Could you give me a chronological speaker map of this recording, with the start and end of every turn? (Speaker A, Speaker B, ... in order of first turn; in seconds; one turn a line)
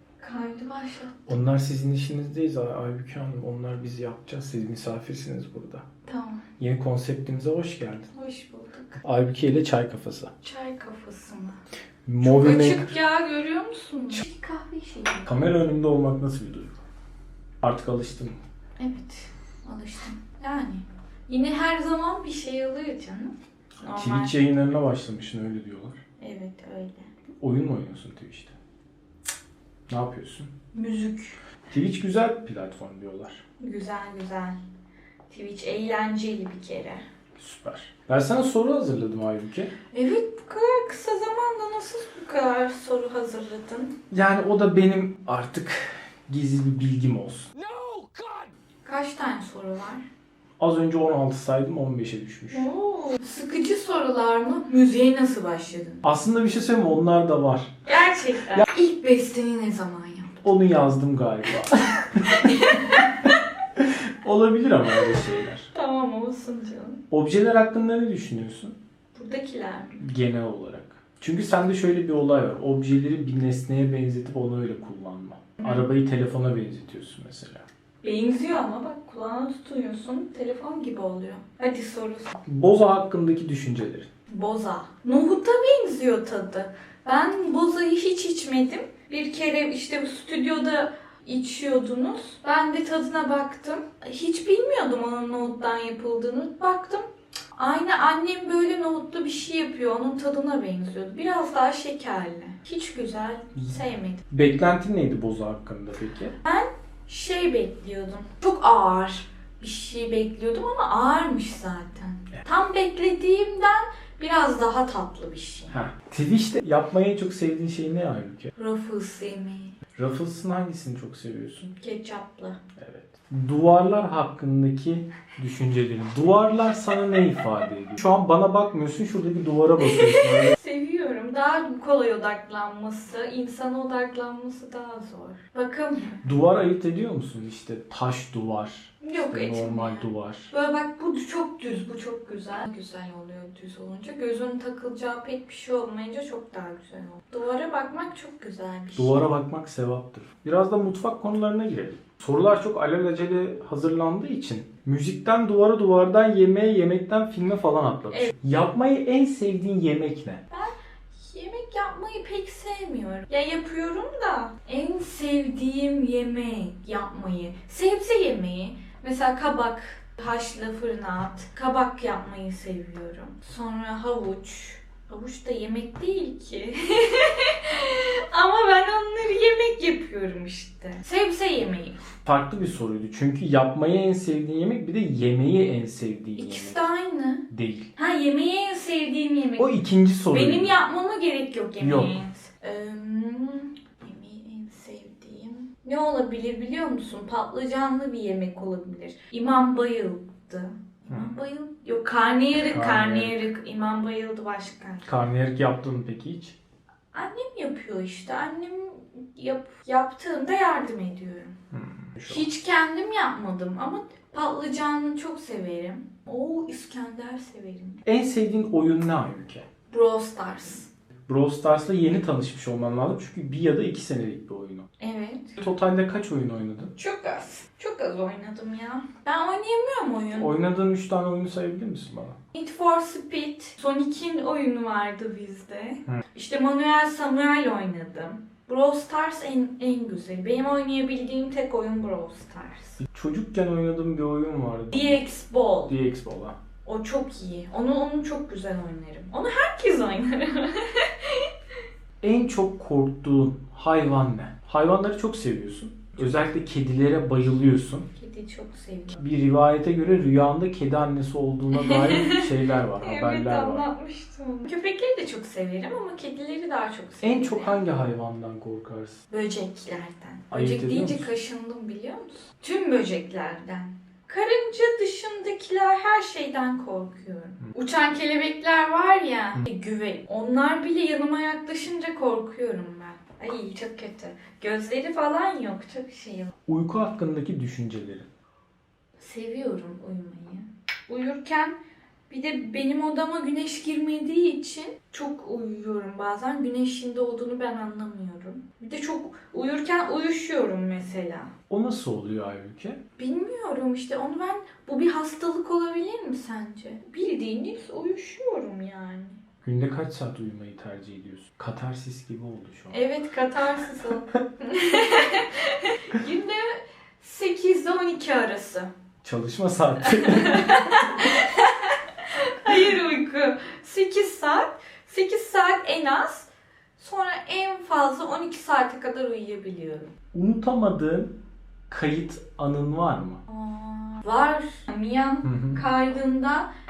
Speaker A: 0.2-1.3
Speaker B: 1.3-5.8
Speaker A: 6.1-6.5
Speaker B: 6.6-8.1
Speaker A: 8.1-9.0
Speaker B: 9.0-10.3
Speaker A: 10.4-11.6
Speaker B: 12.1-12.9
Speaker A: 12.2-15.3
Speaker B: 15.2-16.8
Speaker B: 17.6-18.4
Speaker A: 18.8-24.3
Speaker B: 23.9-26.0
Speaker A: 26.2-27.1
Speaker B: 27.4-28.6
Speaker B: 29.9-30.5
Speaker A: 30.7-31.4
Speaker B: 31.7-33.4
Speaker A: 33.6-34.6
Speaker A: 35.3-37.0
Speaker B: 37.4-39.7
Speaker A: 39.9-43.9
Speaker B: 44.1-48.5
Speaker A: 48.9-50.1
Speaker B: 50.6-52.7
Speaker A: 52.5-56.0
Speaker B: 56.0-57.8
Speaker A: 57.9-60.4
Speaker B: 60.4-62.9
Speaker A: 62.1-63.4
Speaker B: 63.8-65.7
Speaker A: 65.7-67.0
Speaker B: 67.1-68.8
Speaker A: 69.1-70.0
Speaker B: 70.0-77.7
Speaker A: 78.0-82.4
Speaker B: 82.5-84.1
Speaker A: 84.3-104.2
Speaker B: 104.3-106.4
Speaker A: 106.4-115.8
Speaker B: 115.7-118.5
Speaker A: 118.5-119.8
Speaker B: 120.0-121.7
Speaker A: 121.8-122.6
Speaker B: 122.8-130.5
Speaker A: 129.8-136.2
Speaker B: 136.2-140.5
Speaker A: 139.0-149.3
Speaker B: 149.0-160.4
Speaker A: 160.5-182.0
Speaker B: 182.2-186.8
Speaker A: 186.4-189.8
Speaker B: 187.5-187.9
Speaker B: 189.6-190.7
Speaker A: 190.3-205.1
Speaker B: 191.8-192.2
Speaker B: 201.1-201.3
Speaker B: 202.7-203.4
Speaker B: 205.1-206.6
Speaker A: 207.1-211.6
Speaker B: 211.7-212.4
Speaker A: 212.2-218.0
Speaker B: 218.1-219.7
Speaker A: 219.9-220.9
Speaker B: 221.3-224.9
Speaker A: 225.0-225.6
Speaker B: 225.6-226.9
Speaker A: 227.0-230.5
Speaker B: 230.3-232.4
Speaker A: 232.5-243.0
Speaker B: 243.0-245.2
Speaker A: 244.9-245.9
Speaker B: 245.9-246.6
Speaker A: 246.8-251.5
Speaker B: 252.2-258.1
Speaker A: 258.1-259.2
Speaker B: 259.2-263.9
Speaker A: 261.7-267.8
Speaker B: 267.2-269.2
Speaker A: 269.3-286.5
Speaker B: 270.5-271.3
Speaker B: 286.7-288.3
Speaker A: 289.2-291.8
Speaker A: 292.3-301.5
Speaker B: 301.7-303.0
Speaker A: 303.2-309.4
Speaker B: 309.6-313.0
Speaker A: 312.9-318.9
Speaker B: 319.2-320.7
Speaker A: 320.1-330.1
Speaker B: 330.3-331.3
Speaker B: 331.9-333.4
Speaker A: 333.5-336.7
Speaker B: 335.4-335.8